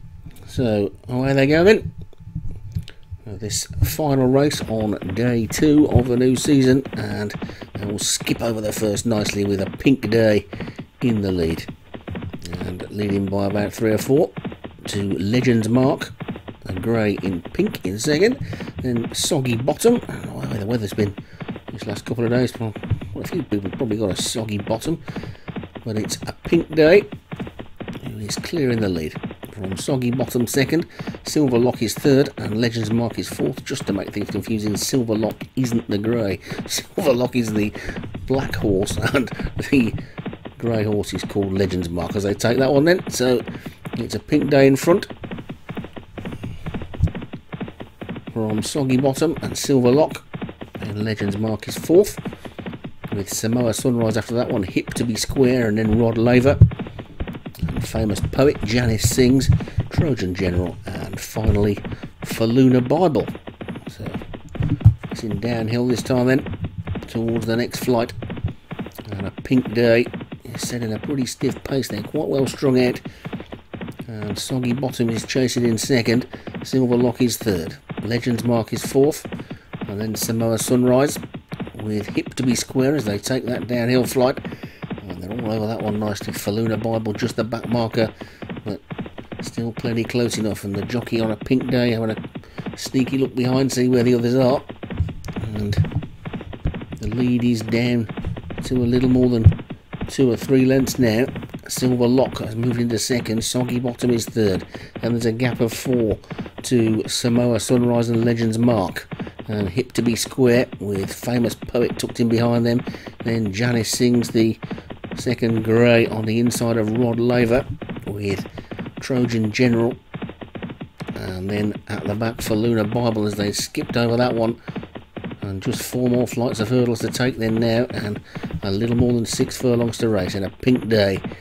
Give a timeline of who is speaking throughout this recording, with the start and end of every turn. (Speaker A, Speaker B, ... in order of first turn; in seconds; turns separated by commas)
Speaker A: 0.5-1.9, Speaker A: 3.2-10.5, Speaker A: 11.0-11.7, Speaker A: 12.4-14.3, Speaker A: 14.8-21.2, Speaker A: 21.7-25.0, Speaker A: 25.8-27.1, Speaker A: 28.0-40.0, Speaker A: 40.6-43.4, Speaker A: 44.0-45.1, Speaker A: 48.3-50.2, Speaker A: 50.8-52.2, Speaker A: 53.1-56.6, Speaker A: 57.6-63.3, Speaker A: 63.9-64.2, Speaker A: 65.1-66.5, Speaker A: 67.0-68.1, Speaker A: 69.0-73.0, Speaker A: 74.1-79.3, Speaker A: 79.9-81.2, Speaker A: 81.7-84.4, Speaker A: 85.0-88.1, Speaker A: 89.4-92.2, Speaker A: 92.7-94.7, Speaker A: 95.4-95.9, Speaker A: 97.0-99.5, Speaker A: 100.1-114.6, Speaker A: 115.1-118.5, Speaker A: 119.0-120.0, Speaker A: 121.1-124.6, Speaker A: 125.4-131.2